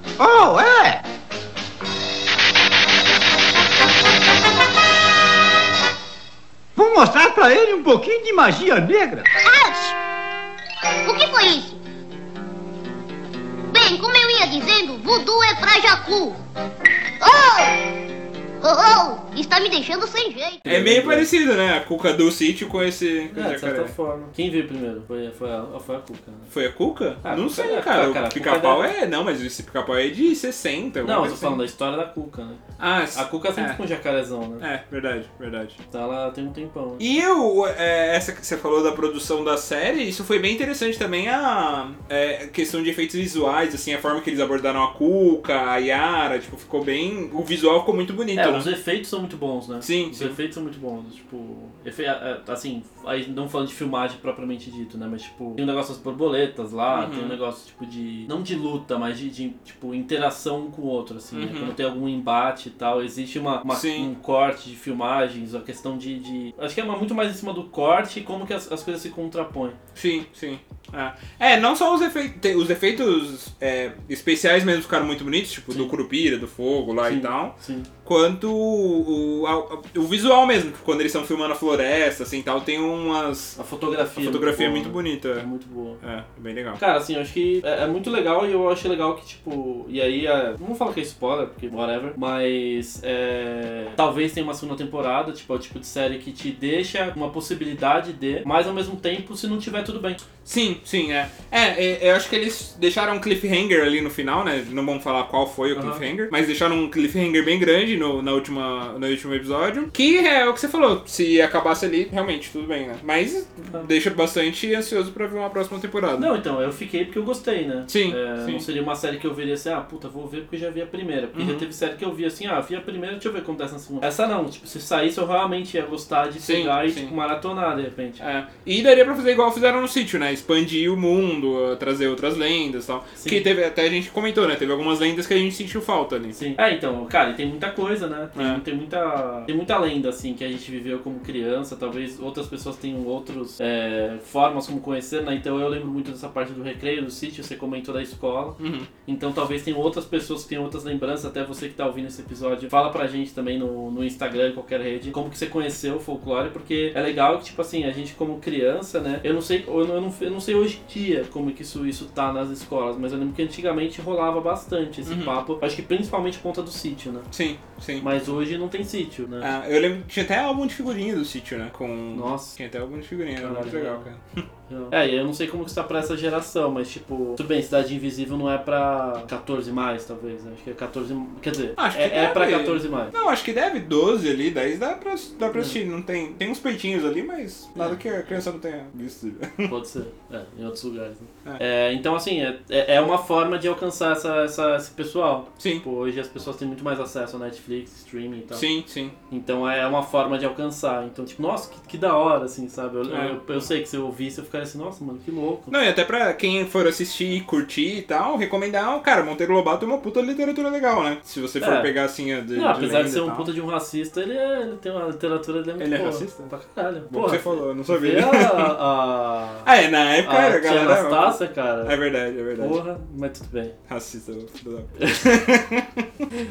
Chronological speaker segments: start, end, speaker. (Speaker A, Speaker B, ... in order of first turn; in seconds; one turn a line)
Speaker A: 0.2-1.0
Speaker A: 6.8-9.3
Speaker B: 9.4-9.9
Speaker B: 11.1-11.8
Speaker B: 13.7-16.4
Speaker B: 17.2-17.8
Speaker B: 18.6-20.6
Speaker C: 20.6-21.3
Speaker D: 20.7-23.9
Speaker C: 23.3-26.5
Speaker D: 26.5-31.6
Speaker C: 27.2-28.9
Speaker C: 31.0-32.6
Speaker D: 32.8-33.8
Speaker C: 33.1-34.7
Speaker D: 34.6-35.8
Speaker C: 35.9-37.0
Speaker D: 37.0-48.7
Speaker C: 48.4-69.8
Speaker D: 49.8-50.4
Speaker D: 56.9-57.4
Speaker D: 61.3-61.8
Speaker D: 63.7-64.1
Speaker D: 70.0-83.6
Speaker C: 77.0-77.9
Speaker C: 83.6-86.0
Speaker D: 84.2-85.5
Speaker D: 86.0-86.8
Speaker C: 86.8-100.2
Speaker D: 100.4-116.3
Speaker C: 105.8-106.0
Speaker C: 116.2-128.2
Speaker D: 117.9-118.7
Speaker D: 121.3-121.7
Speaker D: 126.4-127.1
Speaker D: 128.2-136.3
Speaker C: 133.2-133.4
Speaker C: 136.3-167.3
Speaker D: 138.3-138.6
Speaker D: 148.6-148.9
Speaker D: 165.1-165.4
Speaker D: 167.3-168.1
Speaker C: 168.0-169.5
Speaker D: 169.4-174.4
Speaker C: 172.1-172.6
Speaker C: 173.4-174.1
Speaker C: 174.7-183.1
Speaker D: 181.8-189.7
Speaker C: 185.5-185.8
Speaker C: 189.7-198.7
Speaker D: 195.6-195.8
Speaker D: 198.5-199.2
Speaker C: 199.3-205.8
Speaker D: 203.1-203.7
Speaker D: 205.7-213.5
Speaker C: 211.6-211.9
Speaker C: 212.5-219.7
Speaker D: 215.8-216.5
Speaker D: 217.1-218.7
Speaker D: 219.6-222.8
Speaker C: 220.2-222.0
Speaker C: 222.6-223.8
Speaker D: 223.9-226.2